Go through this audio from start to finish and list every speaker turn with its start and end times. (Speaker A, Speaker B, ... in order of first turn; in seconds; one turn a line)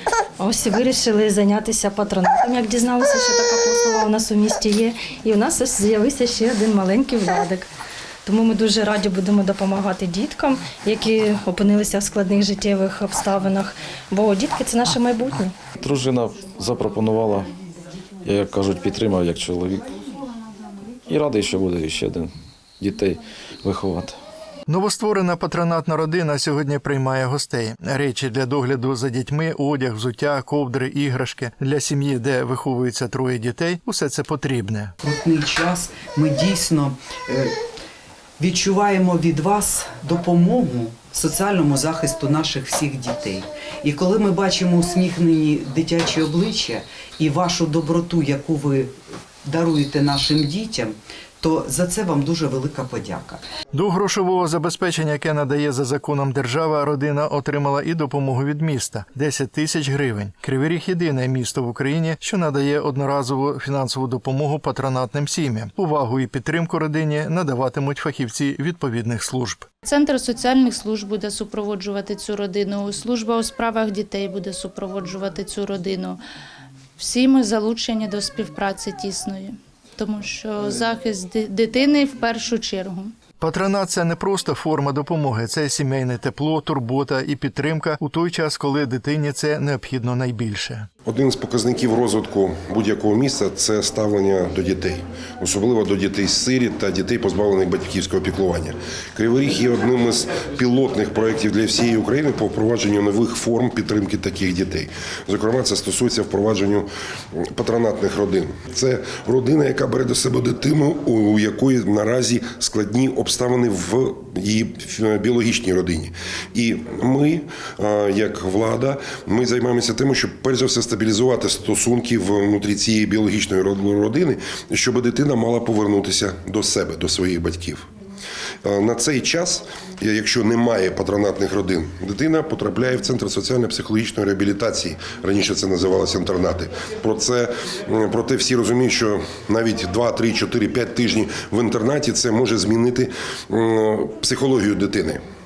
Speaker A: 0.4-7.7
Speaker A: 8.2-15.5
Speaker B: 15.8-17.5
Speaker B: 18.2-19.9
Speaker B: 21.1-24.2
Speaker C: 24.7-34.9
Speaker D: 35.0-37.6
Speaker D: 38.4-48.9
Speaker D: 49.4-53.4
Speaker C: 53.7-69.7
Speaker E: 69.8-76.2
Speaker E: 77.0-83.1
Speaker C: 83.4-90.9
Speaker F: 91.0-127.9
Speaker F: 128.6-145.2